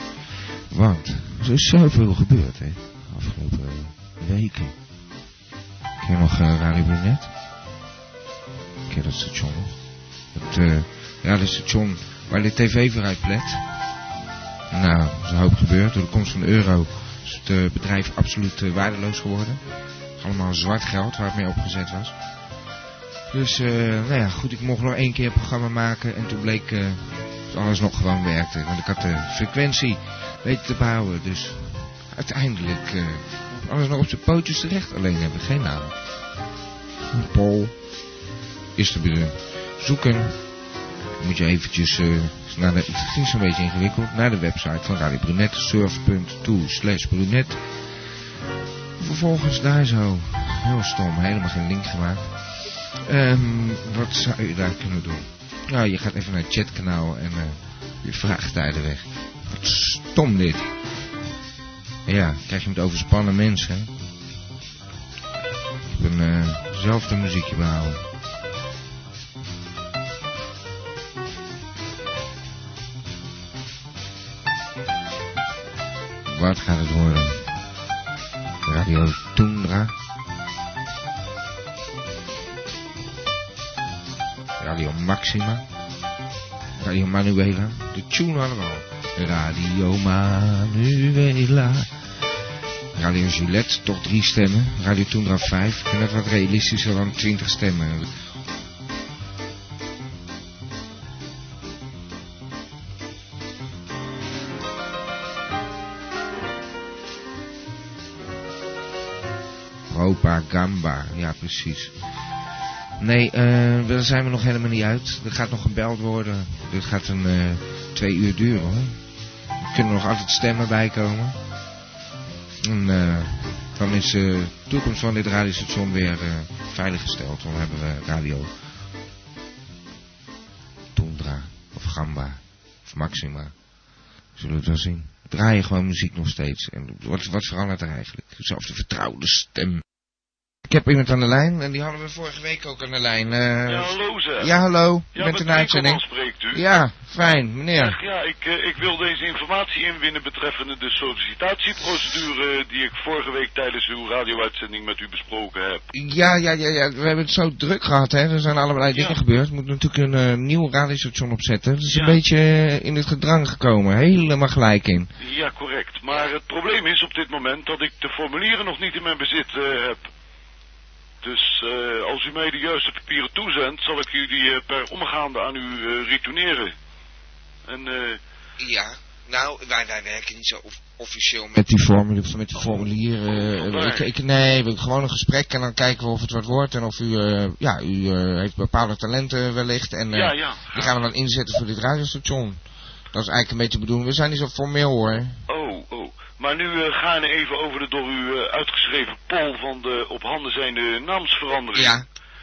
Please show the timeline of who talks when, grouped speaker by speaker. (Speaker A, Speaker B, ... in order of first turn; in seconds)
Speaker A: 0.7-4.8, 6.0-7.3, 8.9-13.6, 14.7-19.6, 20.2-22.1, 23.3-36.0, 37.1-37.8, 38.8-40.4, 41.2-47.6, 49.0-52.4, 53.0-60.6, 62.1-63.9, 65.9-68.0, 76.3-77.4, 78.7-79.9, 84.6-85.6, 86.8-91.9, 93.0-98.1, 109.9-111.9, 113.0-119.0, 119.6-121.4, 122.6-128.5, 130.9-133.5, 134.4-139.8, 140.7-148.0, 155.9-165.1, 178.6-192.6, 193.1-195.4, 201.8-202.1
Speaker B: 143.7-144.5, 145.1-146.6, 147.7-155.8, 158.9-159.2, 161.9-162.2, 165.2-170.0, 171.2-176.8, 177.7-178.2, 182.6-184.1, 190.1-191.0, 195.5-202.0